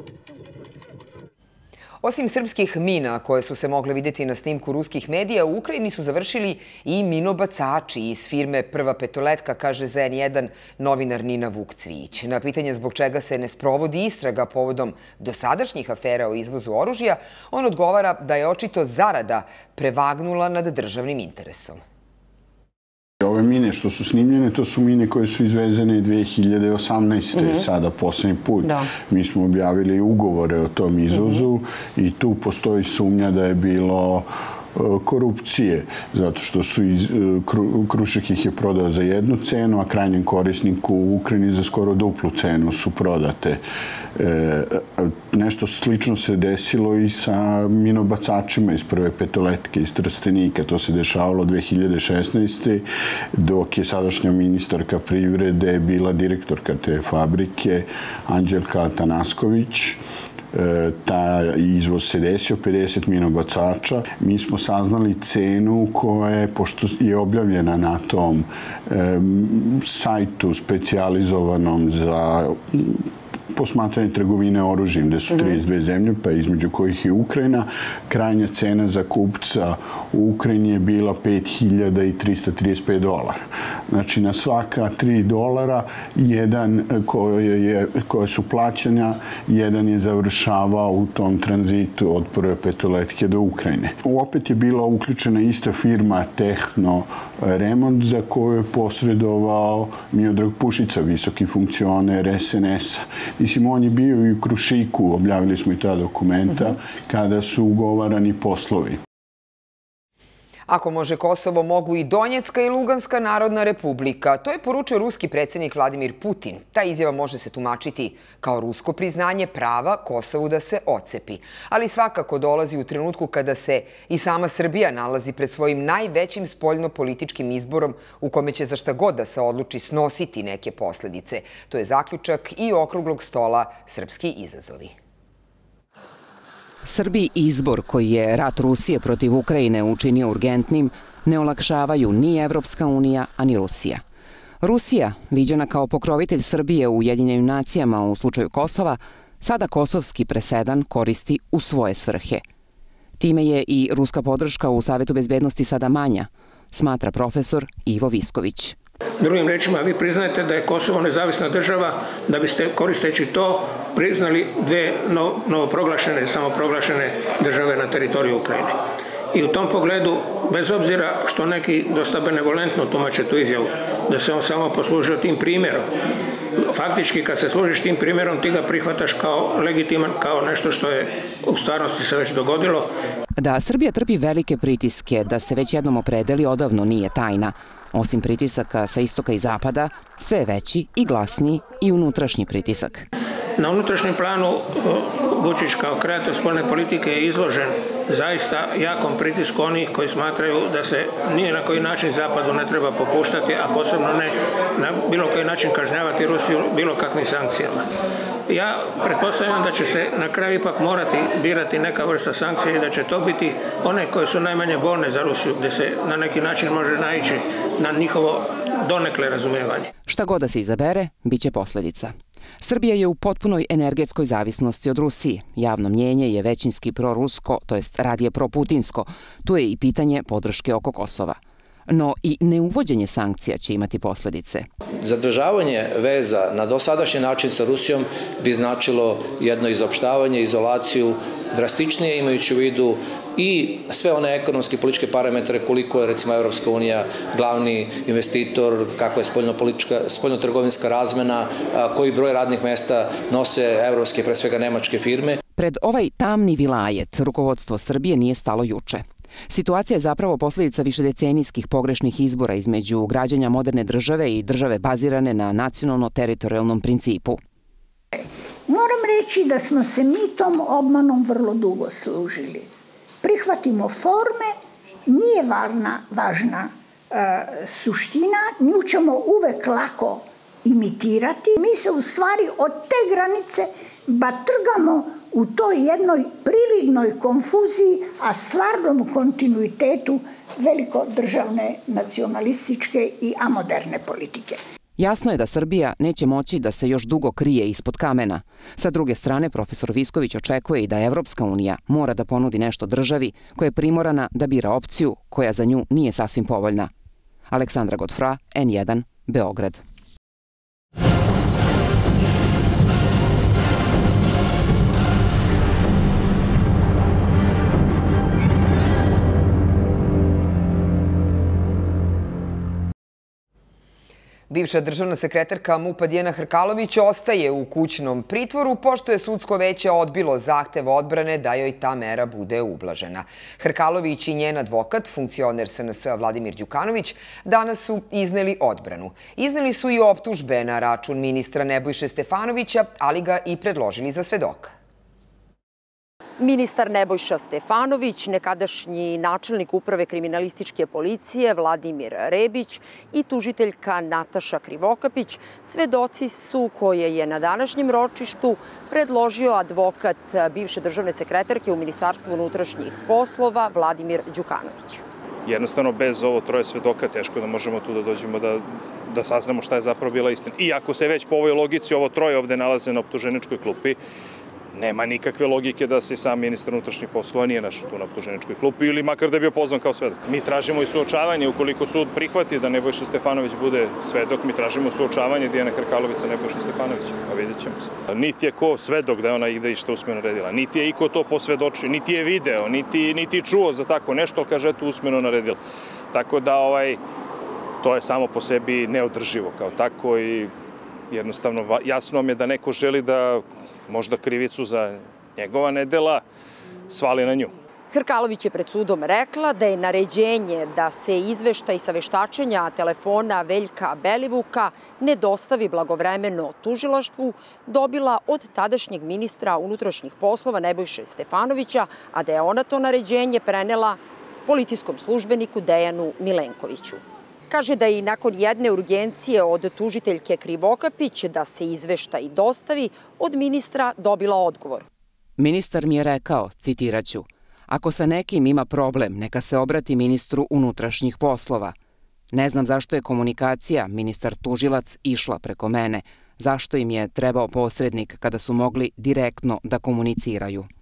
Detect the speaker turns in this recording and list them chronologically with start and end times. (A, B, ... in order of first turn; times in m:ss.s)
0:02.0-0:21.8 A
0:23.2-0:43.6 B
0:44.2-0:52.8 B
0:53.4-1:00.0 B
1:00.5-1:49.0 B
1:50.7-2:14.9 A
2:16.8-2:24.0 C
2:24.6-2:32.4 C
2:33.2-2:38.8 C
2:39.2-2:48.8 D
2:49.3-2:55.9 D
2:56.6-3:02.9 D
3:03.4-3:13.1 C
3:13.6-3:27.8 D
3:28.5-3:39.9 D
3:40.1-3:54.7 C
3:55.0-4:15.4 E
4:15.6-4:27.4 C
4:28.2-4:32.7 F
4:33.2-4:34.6 F
4:35.1-4:54.6 F
4:55.0-5:06.9 C
5:07.5-5:09.8 C
5:24.5-5:44.7 A
5:46.4-6:05.0 G
6:05.5-6:14.0 H
6:14.7-6:35.6 H
6:36.1-6:37.0 H
6:37.8-6:40.5 H
6:41.1-6:46.2 H
6:46.9-6:47.5 H
6:47.9-7:14.8 G
7:15.4-7:21.8 C
7:22.3-7:30.7 C